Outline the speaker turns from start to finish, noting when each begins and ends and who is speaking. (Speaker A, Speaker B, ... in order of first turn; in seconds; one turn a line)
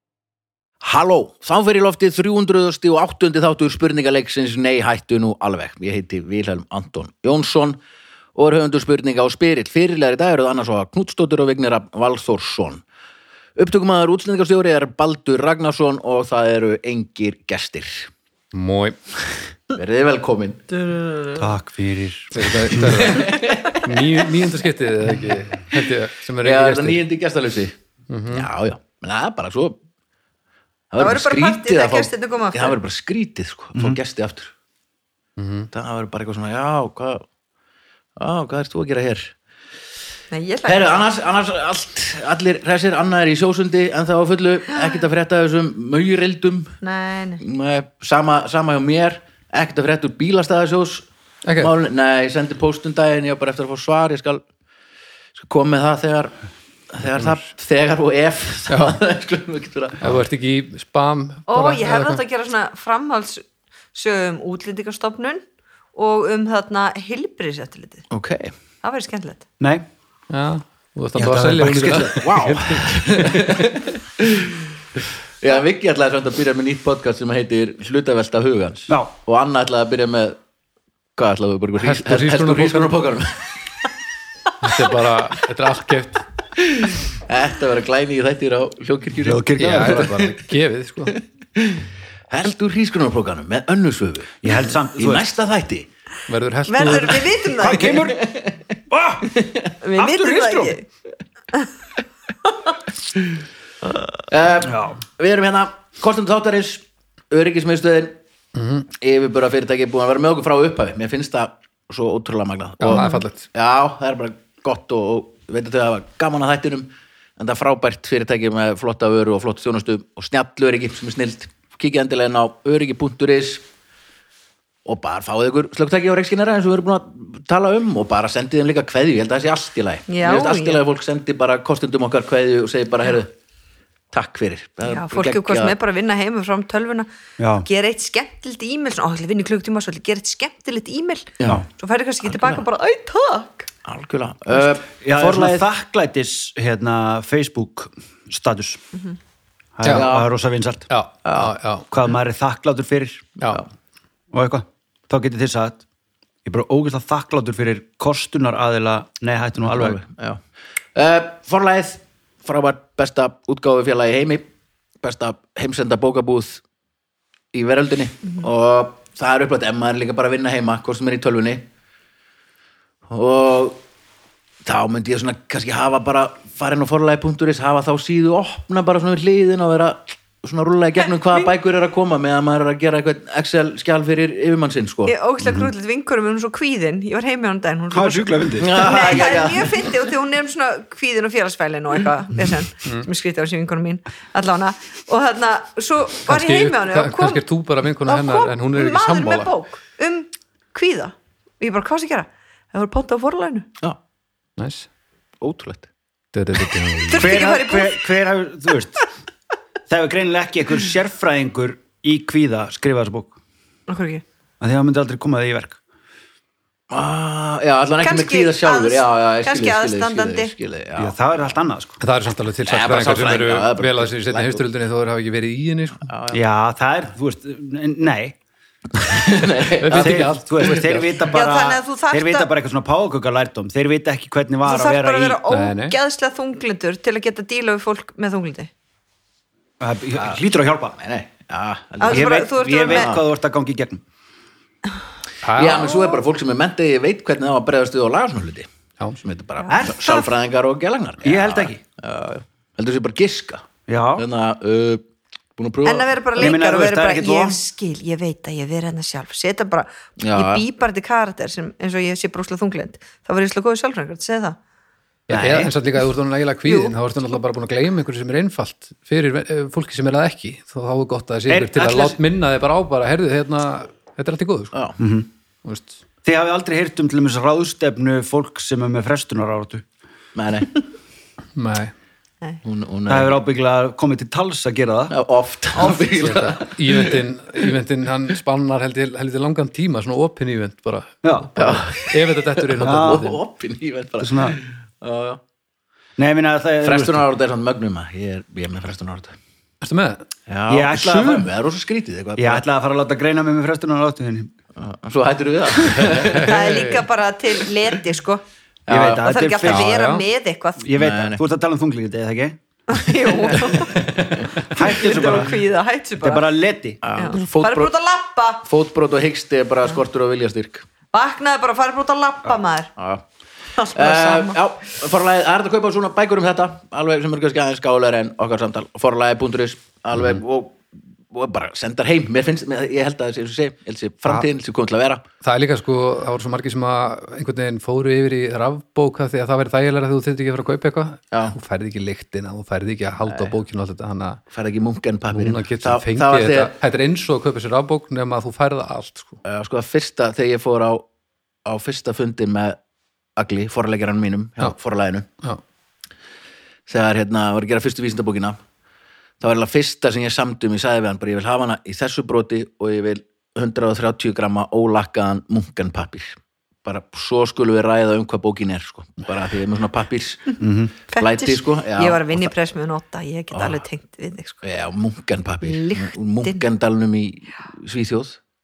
Speaker A: 0.8-7.8
Speaker A: 8.3-12.8
Speaker A: 13.6-18.1
Speaker B: 18.5-19.4
Speaker A: 19.7-20.6
Speaker C: 21.3-23.1
Speaker B: 22.3-27.0
Speaker A: 22.8-24.2
Speaker D: 23.3-23.8
Speaker A: 26.4-27.7
Speaker B: 28.1-28.5
Speaker A: 28.3-29.8
Speaker A: 30.9-34.5
Speaker D: 31.0-32.8
Speaker B: 35.4-35.7
Speaker A: 35.7-37.2
Speaker A: 38.2-39.3
Speaker D: 40.3-41.0
Speaker A: 40.7-46.7
Speaker D: 46.8-47.4
Speaker A: 47.4-51.1
Speaker B: 51.4-51.7
Speaker A: 51.6-54.4
Speaker A: 55.4-56.3
Speaker A: 56.9-60.2
Speaker B: 57.1-57.5
Speaker B: 60.0-62.2
Speaker D: 61.5-65.4
Speaker D: 65.9-68.0
Speaker A: 68.1-68.5
Speaker D: 68.8-69.4
Speaker C: 69.6-69.8
Speaker B: 70.3-73.5
Speaker C: 71.2-72.3
Speaker A: 72.1-74.7
Speaker A: 75.4-80.4
Speaker A: 81.2-83.5
Speaker B: 81.8-82.9
Speaker B: 84.6-86.2
Speaker A: 86.6-90.3
Speaker C: 89.2-90.3
Speaker B: 89.6-91.2
Speaker A: 91.1-95.9
Speaker C: 94.4-95.2
Speaker B: 96.3-97.4
Speaker D: 96.7-98.1
Speaker C: 97.6-98.3
Speaker A: 97.8-98.6
Speaker C: 98.9-99.3
Speaker A: 99.2-99.7
Speaker D: 99.8-100.8
Speaker C: 100.0-100.8
Speaker D: 102.4-102.7
Speaker A: 104.3-108.2
Speaker C: 104.6-105.0
Speaker B: 108.5-108.8
Speaker A: 108.9-123.6
Speaker B: 112.8-113.5
Speaker D: 112.9-113.2
Speaker A: 124.8-133.3
Speaker D: 130.1-130.8
Speaker A: 134.1-135.8
Speaker D: 134.8-137.1
Speaker C: 137.4-137.7
Speaker D: 137.6-143.7
Speaker A: 141.4-141.6
Speaker A: 143.8-145.7
Speaker C: 145.0-148.8
Speaker C: 149.8-150.9
Speaker B: 149.8-150.1
Speaker A: 149.9-150.3
Speaker B: 150.9-151.9
Speaker A: 151.2-151.5
Speaker C: 151.9-153.3
Speaker C: 154.3-155.8
Speaker C: 156.4-160.0
Speaker A: 159.6-160.4
Speaker A: 160.9-164.4
Speaker A: 165.0-166.6
Speaker A: 167.5-171.7
Speaker A: 173.1-173.8
Speaker A: 174.6-185.1
Speaker D: 185.1-197.4
Speaker C: 185.4-185.7
Speaker C: 187.9-188.8
Speaker A: 188.6-189.9
Speaker B: 196.2-199.5
Speaker D: 198.1-203.7
Speaker B: 204.6-204.9
Speaker A: 205.4-205.9
Speaker B: 206.3-207.5
Speaker D: 207.1-208.0
Speaker C: 207.2-209.1
Speaker C: 209.9-213.3
Speaker D: 213.9-214.2
Speaker C: 214.6-215.8
Speaker A: 216.9-221.1
Speaker D: 218.0-220.5
Speaker C: 221.0-222.0
Speaker B: 222.0-226.1
Speaker A: 222.6-224.6
Speaker A: 226.0-226.4
Speaker C: 226.3-228.3
Speaker A: 229.0-231.0
Speaker B: 229.8-231.2
Speaker C: 229.9-235.4
Speaker D: 231.3-232.5
Speaker D: 234.6-238.7
Speaker B: 235.5-235.9
Speaker C: 239.8-241.0
Speaker A: 240.1-240.4
Speaker A: 240.9-243.2
Speaker D: 242.0-243.1
Speaker C: 242.1-244.0
Speaker B: 245.4-246.0
Speaker A: 245.6-248.7
Speaker A: 249.2-255.0
Speaker D: 249.6-250.3
Speaker C: 249.7-250.1
Speaker C: 251.2-251.8
Speaker C: 253.9-254.2
Speaker A: 255.6-256.5
Speaker D: 255.8-264.6
Speaker C: 256.4-257.6
Speaker A: 260.2-260.6
Speaker B: 265.3-274.8
Speaker C: 265.3-265.7
Speaker D: 266.6-266.9
Speaker C: 271.5-272.2
Speaker A: 274.7-275.0
Speaker C: 275.0-275.3
Speaker B: 275.6-275.9
Speaker C: 276.2-279.8
Speaker A: 280.3-280.7
Speaker B: 281.6-281.9
Speaker A: 282.6-283.4
Speaker C: 283.1-285.1
Speaker A: 285.1-287.2
Speaker B: 286.2-293.4
Speaker C: 291.2-291.5
Speaker A: 291.6-295.4
Speaker C: 292.8-293.2
Speaker C: 294.2-294.6
Speaker C: 296.2-297.2
Speaker A: 296.8-299.4
Speaker B: 299.8-300.2
Speaker A: 300.5-302.6
Speaker C: 300.7-301.5
Speaker C: 302.4-304.5
Speaker A: 304.8-306.9
Speaker B: 306.1-307.0
Speaker D: 306.4-308.4
Speaker A: 308.9-309.3
Speaker C: 308.9-309.9
Speaker D: 309.0-310.8
Speaker B: 309.6-310.2
Speaker C: 310.8-313.5
Speaker A: 310.9-311.4
Speaker D: 312.9-314.0
Speaker A: 313.5-314.5
Speaker C: 314.6-315.6
Speaker D: 314.8-316.4
Speaker C: 316.2-317.0
Speaker A: 317.0-317.9
Speaker D: 317.1-318.6
Speaker A: 318.6-320.9
Speaker D: 321.1-322.9
Speaker A: 323.0-323.2
Speaker D: 323.8-324.6
Speaker A: 323.9-335.2
Speaker B: 335.4-344.4
Speaker A: 341.3-341.6
Speaker A: 343.3-343.5
Speaker A: 344.5-346.7
Speaker B: 345.3-349.4
Speaker A: 349.4-351.1
Speaker A: 351.6-352.8
Speaker A: 353.4-355.3
Speaker A: 356.9-358.6
Speaker A: 359.4-372.5
Speaker C: 370.6-370.9
Speaker D: 371.1-374.6
Speaker A: 373.5-373.8
Speaker A: 374.6-378.4
Speaker D: 375.6-376.6